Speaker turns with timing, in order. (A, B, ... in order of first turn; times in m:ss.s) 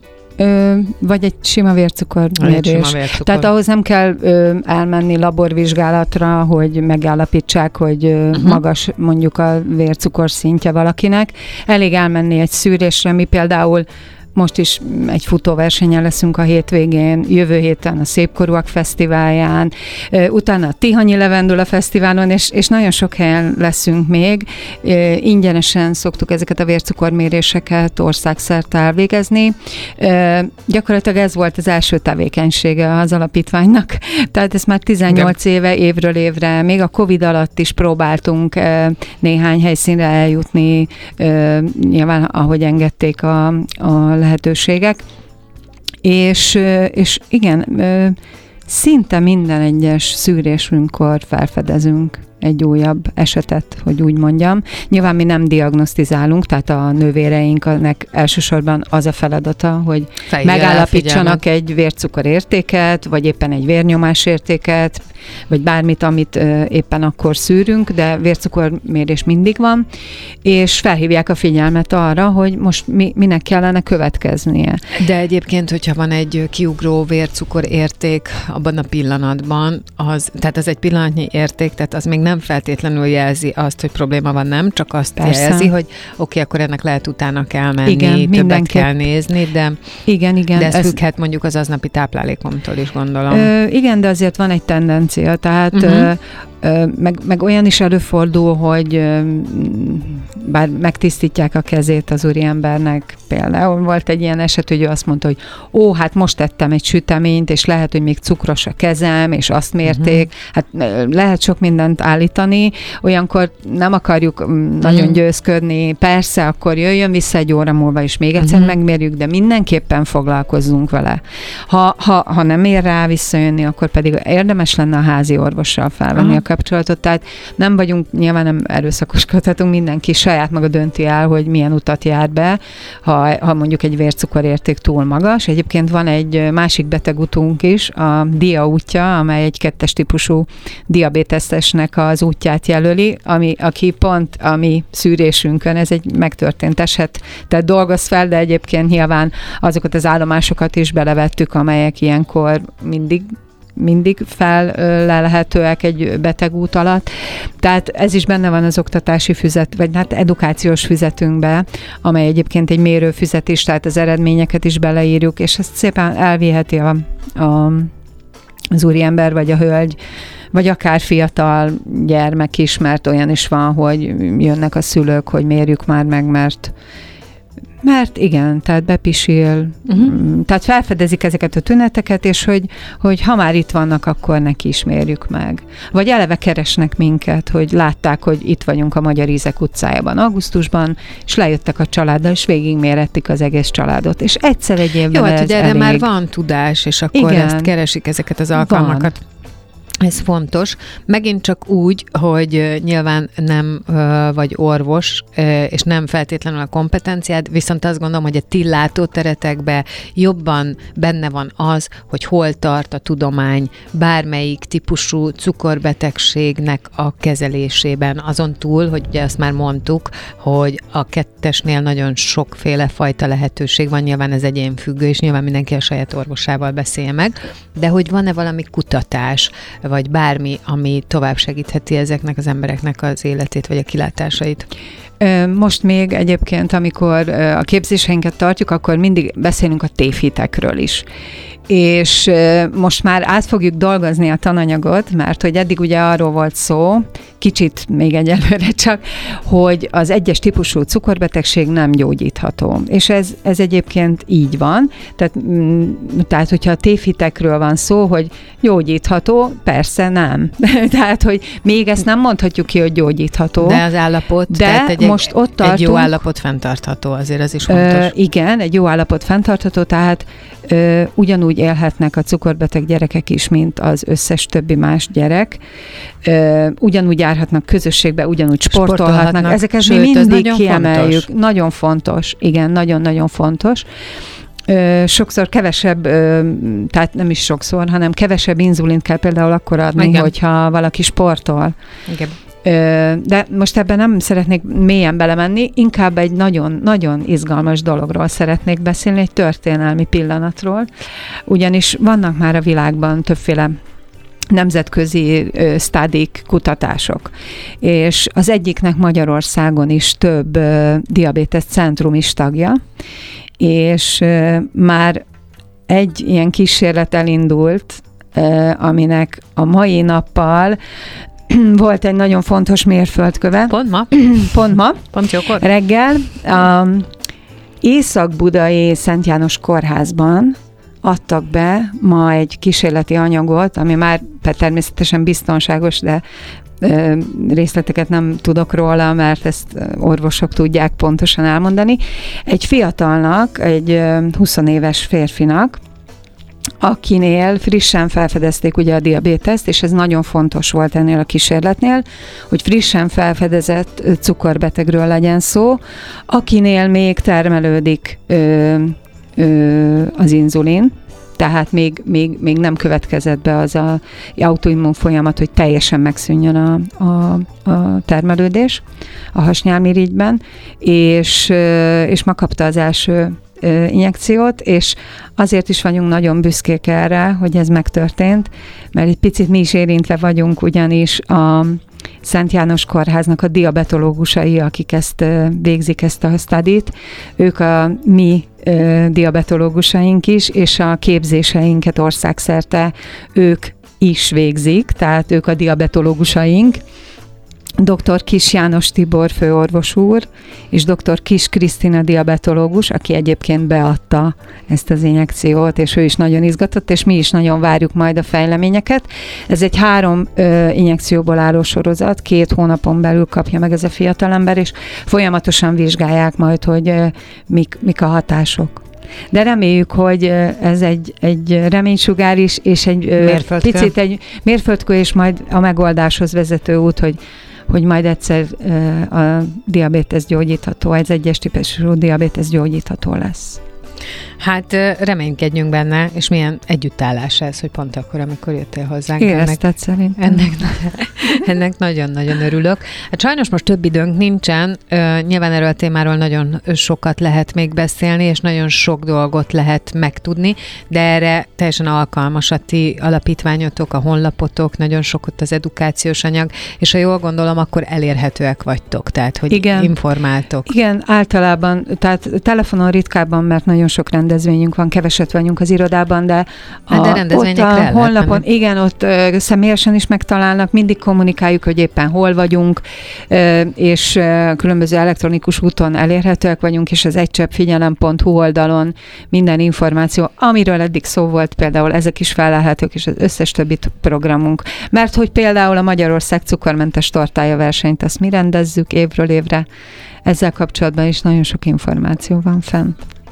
0:00.4-0:45.0 A
0:02.4-0:03.5 B
0:08.4-0:08.6 B
0:46.0-1:09.9 A
1:00.3-1:01.4 B
1:10.4-1:14.8 A
1:15.0-1:29.8 B
1:25.2-1:25.7 A
1:27.8-1:29.0 A
1:30.1-1:31.0 A
1:30.6-1:33.5 B
1:33.3-2:47.9 A
1:35.7-1:36.1 B
1:54.8-1:55.2 B
1:58.4-1:58.8 B
2:48.7-2:50.0 A
2:50.5-2:56.7 A
2:57.8-3:16.1 A
2:59.9-3:00.1 B
3:15.1-3:19.2 B
3:17.1-3:17.7 A
3:18.6-3:19.1 A
3:20.0-3:54.7 B
3:55.2-4:01.1 A
4:01.7-4:23.8 A
4:23.6-4:28.1 B
4:24.5-4:26.2 A
4:27.7-4:35.6 A
4:36.2-4:43.9 A
4:38.7-4:41.2 B
4:44.7-4:51.8 A
4:50.0-4:50.3 B
4:52.1-4:52.4 B
4:52.6-5:00.9 A
5:01.5-5:03.7 A
5:04.5-5:12.8 A
5:13.6-5:15.2 A
5:15.9-5:20.8 A
5:21.5-5:25.0 A
5:23.7-5:25.6 B
5:25.6-5:27.1 A
5:27.8-5:36.2 A
5:36.8-5:45.8 A
5:46.8-6:36.8 A
6:37.8-7:07.2 A
7:03.2-7:03.9 B
7:07.7-7:13.6 A
7:14.4-7:19.6 B
7:19.2-7:20.8 A
7:20.2-7:40.7 B
7:39.5-7:39.9 A
7:40.7-8:09.7 A
7:46.9-7:48.4 B
8:10.3-8:13.0 A